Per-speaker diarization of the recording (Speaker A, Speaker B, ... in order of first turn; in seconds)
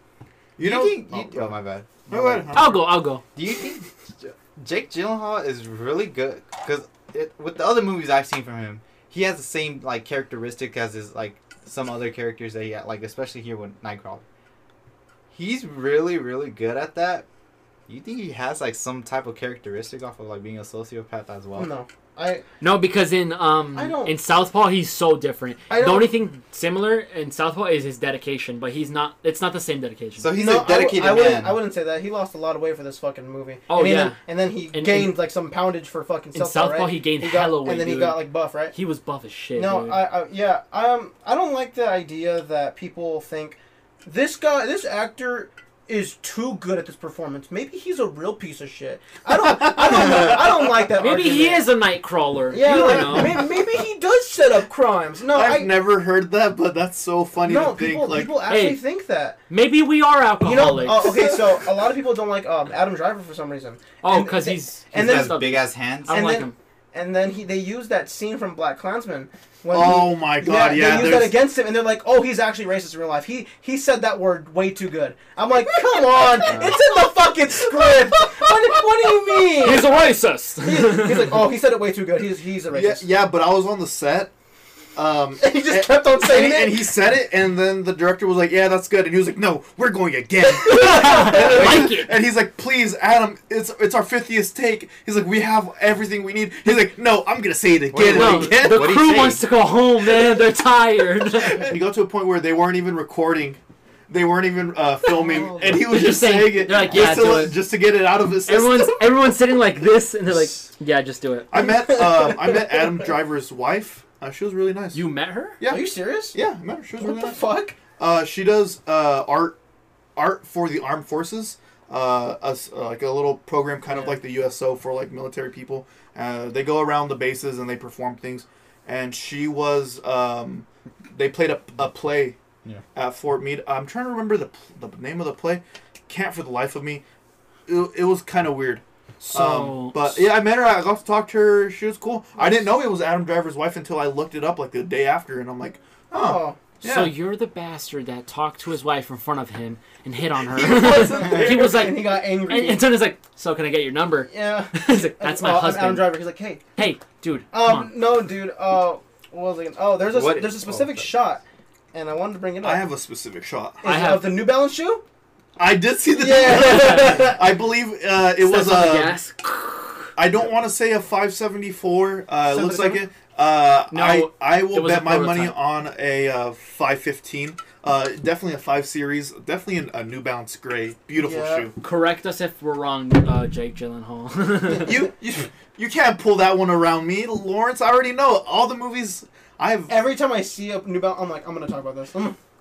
Speaker A: 0.6-1.6, 2.1-2.8, 49.4-50.5, 55.3-58.4, 69.7-71.4, 82.7-84.3, 84.9-99.0, 101.4-109.1, 111.5-115.0, 115.6-117.4, 118.0-119.6, 120.2-132.4, 132.9-137.0, 137.7-147.1, 150.4-151.8, 162.6-163.8, 165.6-169.2, 170.2-181.7, 184.8-189.9
Speaker B: 0.6-2.6, 3.3-14.2, 15.3-17.2, 17.9-21.7, 30.2-31.6, 64.9-66.1, 97.9-99.4, 160.1-161.1
Speaker C: 2.5-3.2, 22.6-30.3, 33.7-34.2, 34.7-35.2, 36.3-40.1, 51.0-53.5, 58.5-58.8, 59.5-61.1, 64.0-66.5, 76.1-77.0, 77.6-81.4, 90.5-92.1, 98.0-101.7, 105.3-107.7, 108.5-111.5, 114.9-115.6, 139.2-140.3, 146.8-156.2, 156.8-157.9, 163.8-164.4, 166.6-167.3, 168.4-170.1, 173.9-175.6, 181.8-184.9
Speaker D: 21.6-22.4, 23.7-24.1, 25.7-26.1, 30.3-38.7, 39.5-51.7, 52.5-55.7, 57.4-59.4, 60.4-65.4, 66.1-79.9, 80.6-83.0, 85.4-86.9, 105.1-105.9, 111.6-112.6, 115.7-116.4, 117.0-117.8, 146.1-146.6, 151.3-152.9, 154.3-156.6, 157.5-161.4, 161.9-162.9, 163.8-165.0, 166.1-167.4, 172.5-173.0, 181.2-181.7, 189.9-192.4